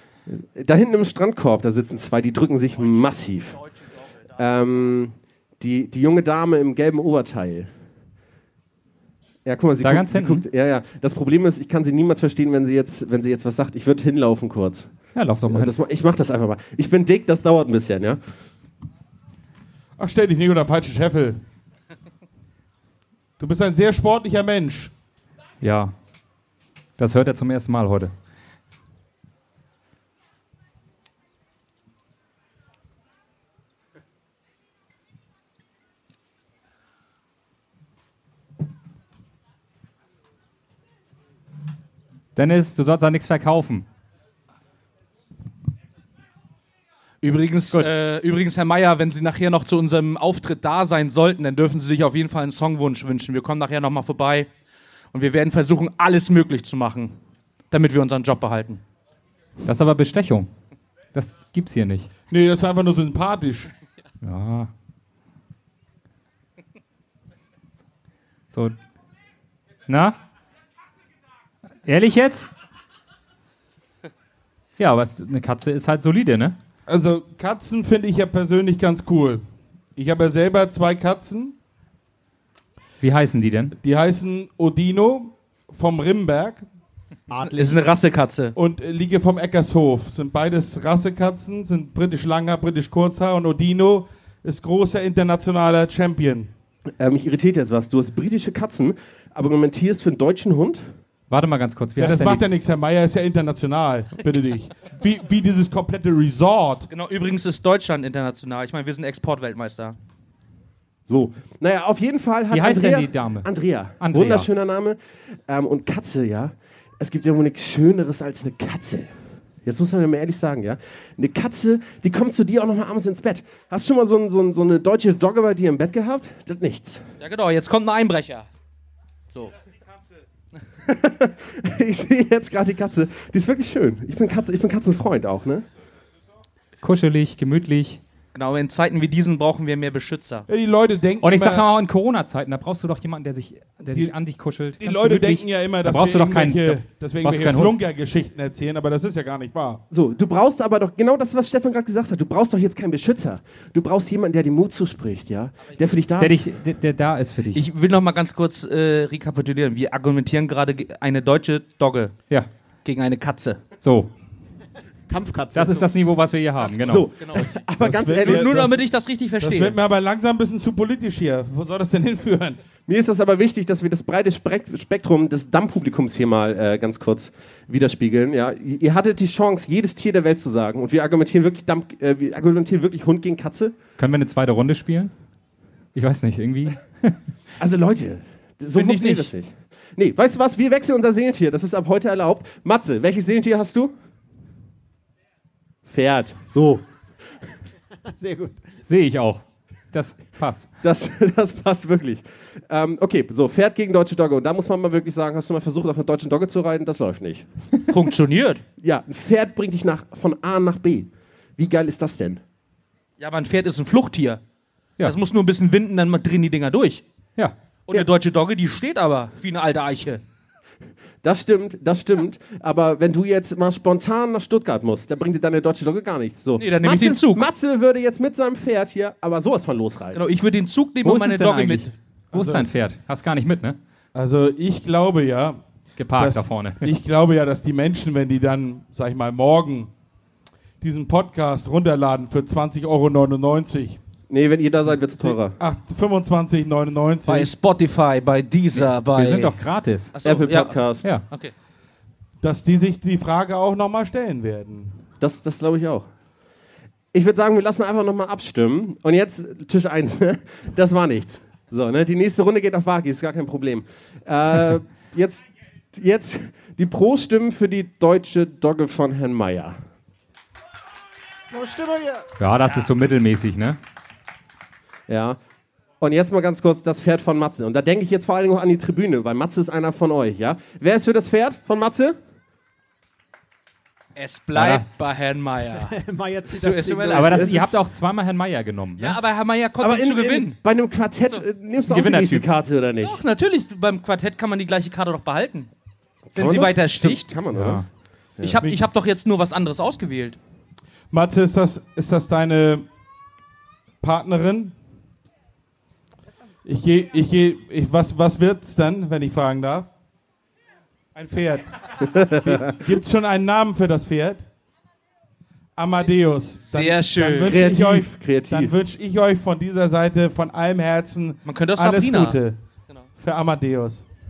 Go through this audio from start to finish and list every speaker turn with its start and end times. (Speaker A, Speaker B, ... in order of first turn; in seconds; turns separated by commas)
Speaker A: 0.3-3.6, Speaker A: 4.3-7.7, Speaker A: 9.4-14.9, Speaker B: 9.8-10.4, Speaker B: 15.2-15.7, Speaker A: 15.5-18.2, Speaker C: 20.0-21.4, Speaker C: 23.4-24.9, Speaker B: 25.6-25.9, Speaker B: 27.0-28.1, Speaker B: 42.4-43.9, Speaker D: 47.2-54.5, Speaker D: 55.1-57.1, Speaker D: 57.7-58.8, Speaker B: 59.6-60.5, Speaker B: 61.1-62.1, Speaker C: 62.3-63.7, Speaker B: 64.2-64.7, Speaker B: 69.9-70.2, Speaker B: 71.8-72.5, Speaker B: 74.8-76.6, Speaker C: 76.9-79.4, Speaker C: 80.0-81.5, Speaker B: 83.0-83.8, Speaker C: 83.8-86.7, Speaker E: 87.3-87.9, Speaker D: 87.4-88.5, Speaker C: 88.6-96.5, Speaker A: 97.0-100.8, Speaker B: 101.3-102.5, Speaker C: 102.0-106.9, Speaker D: 106.9-110.0, Speaker A: 111.1-119.1, Speaker B: 112.5-113.5, Speaker B: 114.0-114.5, Speaker A: 119.6-127.0, Speaker D: 127.2-128.5, Speaker A: 130.8-135.7, Speaker B: 136.8-138.0, Speaker D: 138.3-140.5, Speaker C: 140.5-141.7, Speaker B: 141.2-147.8, Speaker C: 144.8-149.8, Speaker A: 149.9-156.5, Speaker B: 156.2-157.7, Speaker D: 157.5-162.2, Speaker D: 162.8-163.6, Speaker B: 163.8-164.1, Speaker E: 165.1-166.0, Speaker B: 165.5-167.1, Speaker D: 166.6-167.5, Speaker A: 166.8-168.5, Speaker C: 167.8-168.8, Speaker D: 168.2-169.8, Speaker C: 169.4-172.6, Speaker A: 172.9-183.8, Speaker B: 184.0-185.1, Speaker B: 185.9-187.2, Speaker A: 187.6-193.9, Speaker D: 188.7-189.3, Speaker A: 195.9-196.8, Speaker E: 198.1-198.7, Speaker B: 198.9-200.7, Speaker A: 200.8-207.5, Speaker D: 207.9-208.6, Speaker A: 208.8-212.4, Speaker D: 213.2-214.4, Speaker D: 215.0-217.0, Speaker D: 217.9-220.2, Speaker A: 221.2-230.2, Speaker D: 226.6-227.5, Speaker D: 230.1-231.9, Speaker B: 231.0-233.8, Speaker C: 232.3-232.7, Speaker C: 234.2-235.6, Speaker B: 236.0-236.9, Speaker C: 236.2-239.9, Speaker C: 240.8-244.0, Speaker A: 244.3-245.6, Speaker C: 245.1-247.5, Speaker D: 247.2-249.6, Speaker B: 249.0-250.1, Speaker D: 250.2-251.5, Speaker A: 250.2-251.1, Speaker C: 252.4-255.0, Speaker A: 255.2-256.1, Speaker A: 257.1-269.8, Speaker E: 271.5-272.3, Speaker B: 272.4-273.8, Speaker A: 275.1-275.4, Speaker A: 276.0-282.2, Speaker D: 284.2-285.9, Speaker B: 284.6-284.9, Speaker E: 285.7-287.6, Speaker D: 286.5-287.5, Speaker B: 287.1-289.2, Speaker A: 287.3-287.8, Speaker D: 289.0-290.6, Speaker A: 289.8-293.2, Speaker B: 291.9-292.5, Speaker D: 293.0-295.7, Speaker A: 296.3-297.8, Speaker D: 296.4-297.2, Speaker B: 297.5-297.9, Speaker D: 298.4-300.4, Speaker C: 301.1-302.9, Speaker C: 304.0-304.7, Speaker C: 306.6-309.9, Speaker C: 311.1-314.4, Speaker A: 312.1-312.8, Speaker C: 315.8-322.6, Speaker D: 316.6-317.6, Speaker A: 317.4-318.8, Speaker D: 321.4-322.4, Speaker C: 323.2-324.1